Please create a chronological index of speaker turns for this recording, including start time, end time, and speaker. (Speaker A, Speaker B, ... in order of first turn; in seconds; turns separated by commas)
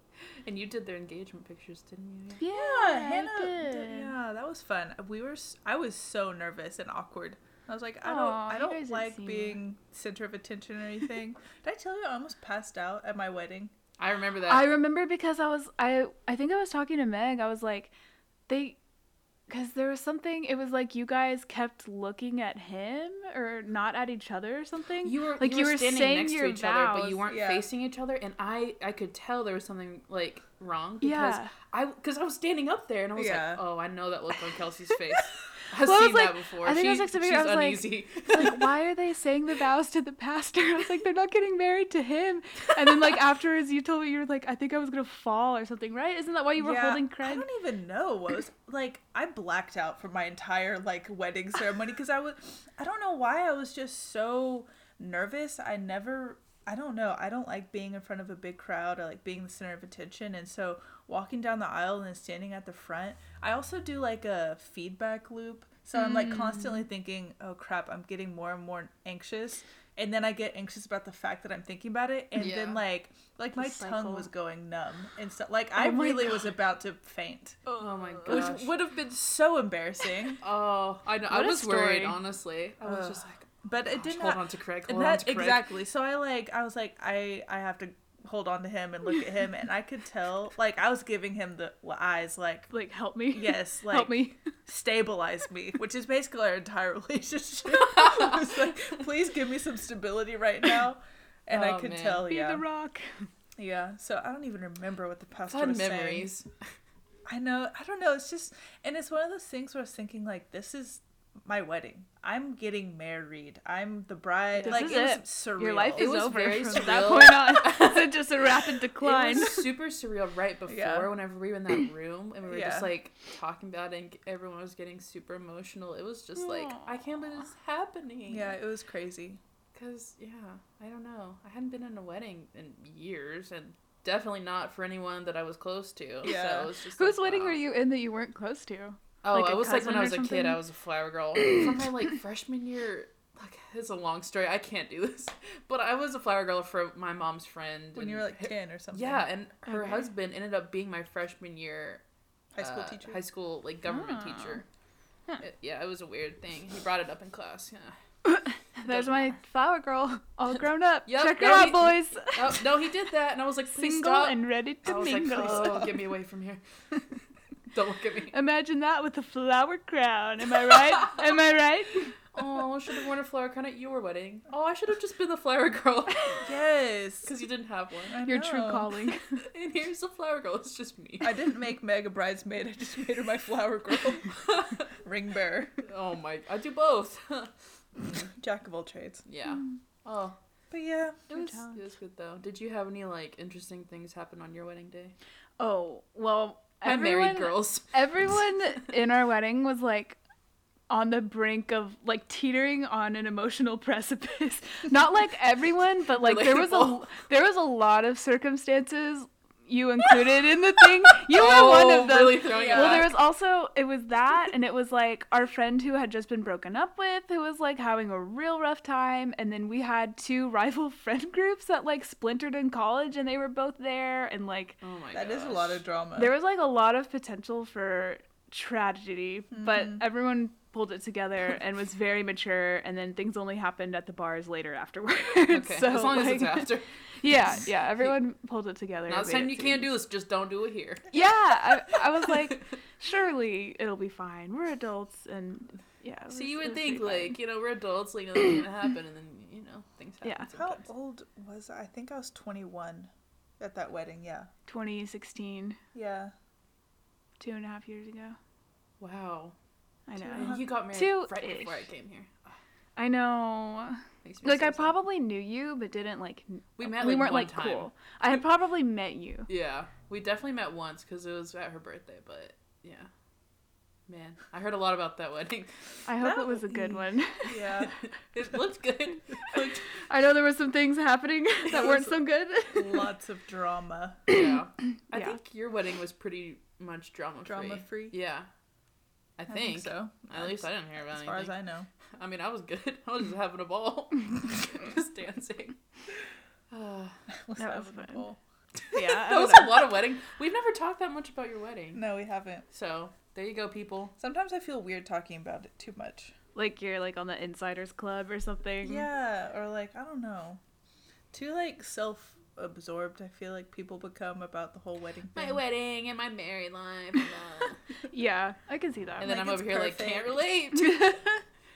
Speaker A: 0.4-2.4, Speaker B: 2.4-4.1, Speaker C: 2.5-13.7, Speaker B: 8.0-9.6, Speaker A: 14.0-14.7, Speaker B: 14.5-17.9, Speaker B: 18.5-18.8, Speaker B: 19.5-27.2, Speaker A: 25.0-38.7, Speaker C: 27.3-27.7, Speaker B: 31.0-31.5, Speaker C: 33.2-33.6, Speaker B: 35.7-47.5, Speaker C: 46.6-77.6, Speaker B: 66.0-66.8, Speaker A: 72.4-72.8, Speaker B: 73.6-74.3, Speaker B: 75.8-76.5, Speaker B: 77.7-78.5, Speaker A: 77.8-78.7, Speaker C: 78.3-80.4, Speaker A: 80.4-85.7, Speaker B: 81.3-82.2, Speaker C: 82.8-92.7, Speaker B: 92.7-94.4, Speaker C: 93.3-102.7, Speaker A: 98.1-98.4, Speaker A: 101.5-102.3, Speaker B: 102.2-103.3, Speaker C: 103.6-106.3, Speaker A: 105.5-106.5, Speaker C: 107.3-116.1, Speaker A: 114.6-115.0, Speaker B: 114.6-119.7, Speaker A: 116.0-118.3, Speaker A: 119.0-128.6, Speaker C: 120.7-121.1, Speaker C: 122.5-122.9, Speaker B: 126.5-126.8, Speaker C: 128.3-129.4, Speaker A: 129.7-137.6, Speaker C: 136.2-136.7, Speaker B: 137.0-140.6, Speaker A: 139.2-152.0, Speaker C: 147.9-149.2, Speaker B: 149.7-150.1, Speaker C: 152.6-153.2, Speaker A: 152.6-154.7, Speaker B: 153.9-154.6, Speaker A: 155.4-158.0, Speaker B: 158.2-162.7, Speaker A: 158.9-159.4, Speaker A: 161.1-166.6, Speaker B: 163.7-166.0, Speaker C: 165.4-165.8, Speaker A: 167.7-168.4, Speaker B: 168.3-172.2, Speaker A: 172.3-176.4, Speaker C: 176.4-177.3, Speaker A: 177.2-178.2, Speaker C: 178.1-178.9, Speaker B: 178.2-179.4, Speaker A: 179.5-181.4, Speaker C: 181.2-184.4, Speaker A: 184.4-184.9, Speaker C: 184.9-185.8, Speaker A: 185.8-187.5, Speaker C: 188.3-189.2, Speaker A: 189.3-190.4, Speaker C: 190.7-191.2, Speaker B: 191.3-191.8, Speaker A: 191.3-195.2, Speaker B: 195.6-200.2, Speaker A: 196.8-197.9, Speaker B: 200.9-224.8, Speaker A: 206.2-207.1, Speaker A: 211.2-213.2, Speaker C: 212.5-213.1, Speaker A: 224.8-225.8, Speaker C: 225.1-226.3, Speaker B: 226.2-239.9, Speaker C: 229.5-230.0, Speaker A: 235.4-236.9, Speaker A: 239.1-241.1, Speaker B: 241.1-247.4, Speaker A: 246.3-250.9, Speaker B: 250.2-250.5, Speaker C: 250.5-254.5, Speaker B: 254.7-255.8, Speaker C: 255.9-256.3, Speaker B: 257.4-258.4, Speaker A: 259.0-259.6, Speaker B: 260.1-261.8, Speaker A: 260.2-262.6, Speaker C: 260.3-260.6, Speaker B: 263.0-269.5, Speaker A: 264.2-264.9, Speaker A: 266.8-267.9, Speaker A: 269.5-273.1, Speaker A: 274.1-275.8, Speaker B: 276.1-277.6, Speaker C: 276.2-278.0, Speaker A: 277.8-279.9, Speaker B: 280.0-283.1, Speaker A: 281.7-282.1, Speaker C: 282.7-284.2, Speaker A: 284.3-288.5, Speaker C: 287.4-288.2, Speaker A: 289.4-291.6, Speaker C: 289.5-291.9, Speaker A: 292.2-295.8, Speaker A: 296.7-297.2, Speaker C: 297.4-298.4, Speaker B: 297.6-298.2, Speaker B: 298.9-299.9, Speaker A: 298.9-302.0, Speaker C: 301.9-302.7, Speaker A: 302.7-304.1, Speaker C: 304.2-306.3, Speaker B: 306.6-309.1, Speaker C: 308.8-310.6, Speaker C: 311.3-315.6, Speaker A: 315.3-317.8, Speaker B: 318.1-319.5, Speaker A: 319.2-321.1, Speaker C: 319.2-320.5, Speaker B: 320.8-321.3